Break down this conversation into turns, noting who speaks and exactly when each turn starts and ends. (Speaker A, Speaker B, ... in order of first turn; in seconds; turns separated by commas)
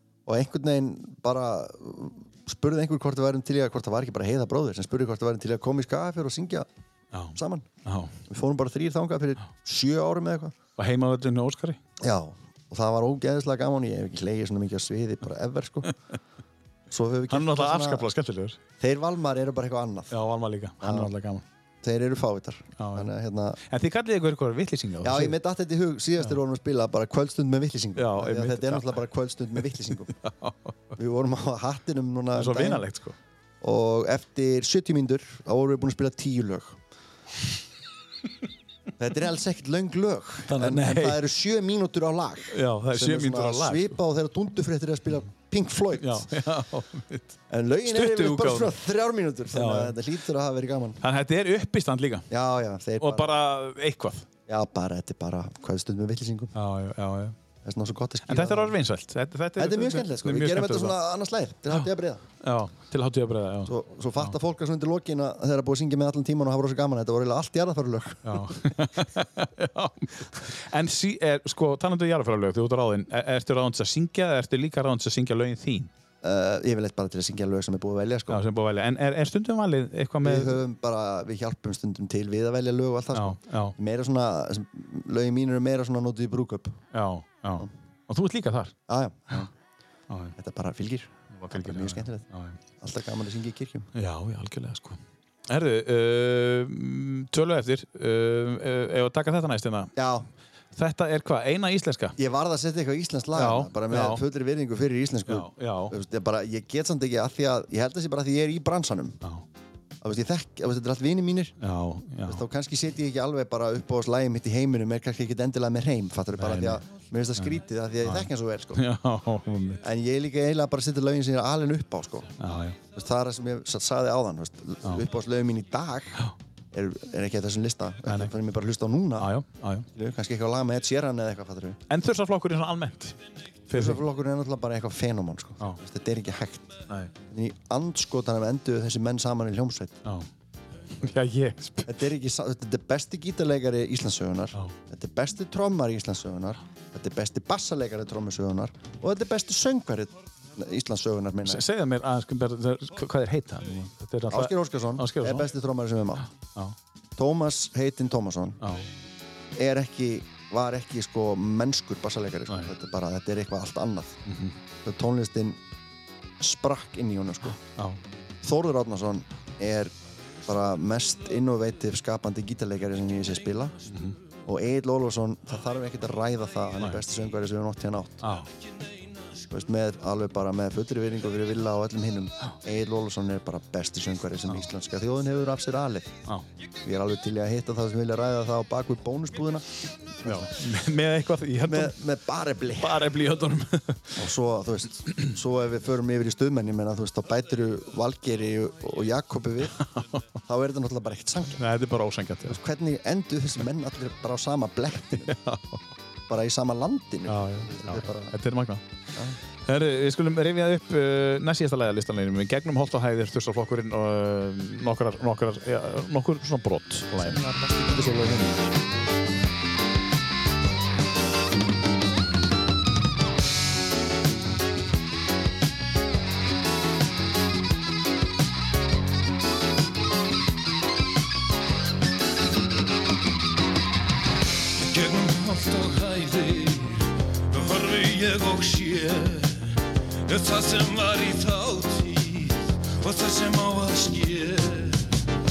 Speaker A: 0.2-6.7, Speaker B: 7.1-8.2, Speaker A: 7.3-7.7, Speaker A: 8.2-10.5, Speaker B: 10.8-11.8, Speaker A: 12.0-15.9, Speaker A: 16.9-18.1, Speaker B: 17.3-18.6, Speaker A: 18.8-20.1, Speaker B: 20.1-21.4, Speaker A: 20.8-21.1, Speaker A: 21.8-23.6, Speaker B: 22.8-23.1, Speaker B: 23.6-25.4, Speaker A: 25.0-30.1, Speaker B: 27.9-28.9, Speaker B: 30.1-30.9, Speaker A: 30.9-32.8, Speaker B: 32.3-33.1, Speaker A: 33.6-36.8, Speaker A: 39.0-46.3, Speaker B: 40.5-41.2, Speaker B: 42.5-44.0, Speaker B: 46.0-48.7, Speaker A: 47.5-51.0, Speaker B: 49.5-50.0, Speaker B: 51.0-52.3, Speaker A: 52.3-53.3, Speaker B: 53.0-54.3, Speaker A: 54.5-56.5, Speaker B: 56.5-57.4, Speaker A: 57.6-58.8, Speaker B: 58.3-61.0, Speaker A: 59.5-62.2, Speaker B: 62.4-63.7, Speaker A: 63.6-68.5, Speaker B: 68.2-75.9, Speaker A: 76.2-78.4, Speaker B: 78.3-80.6, Speaker A: 80.2-86.8, Speaker B: 83.1-83.8, Speaker B: 86.9-88.7, Speaker A: 88.9-89.5, Speaker B: 90.1-90.3, Speaker A: 90.4-92.2, Speaker B: 91.3-92.6, Speaker A: 92.8-93.9, Speaker B: 93.9-99.9, Speaker A: 100.0-100.3, Speaker B: 100.7-102.2, Speaker A: 102.2-109.2, Speaker B: 103.3-104.2, Speaker B: 105.3-106.0, Speaker A: 110.0-111.5, Speaker B: 111.6-112.4, Speaker A: 112.2-118.8, Speaker B: 116.4-116.8, Speaker B: 117.4-119.8, Speaker A: 119.8-122.3, Speaker B: 122.4-122.8, Speaker A: 122.9-129.3, Speaker B: 129.2-129.9, Speaker A: 129.9-131.8, Speaker B: 131.9-133.2, Speaker B: 133.7-134.0, Speaker A: 133.7-140.0, Speaker B: 141.0-141.9, Speaker A: 141.9-151.6, Speaker B: 151.4-155.5, Speaker A: 154.3-156.3, Speaker A: 157.2-158.6, Speaker B: 158.6-158.9, Speaker A: 159.5-164.2, Speaker B: 164.2-164.6, Speaker A: 164.8-165.6, Speaker A: 166.4-167.6, Speaker B: 167.7-168.0, Speaker A: 168.4-173.8, Speaker B: 173.9-174.2, Speaker A: 174.4-178.3, Speaker B: 178.2-178.5, Speaker A: 179.5-186.1, Speaker A: 186.8-189.7, Speaker A: 190.2-190.5, Speaker B: 190.2-192.0, Speaker A: 191.6-193.1, Speaker B: 192.7-194.2, Speaker A: 194.2-199.8, Speaker B: 199.8-200.3, Speaker A: 200.4-201.6, Speaker B: 201.6-202.6, Speaker A: 202.4-205.4, Speaker B: 205.3-205.8, Speaker A: 206.3-208.3, Speaker B: 207.3-208.8, Speaker B: 209.7-217.4, Speaker A: 217.2-218.6, Speaker C: 234.8-239.7, Speaker C: 240.2-245.2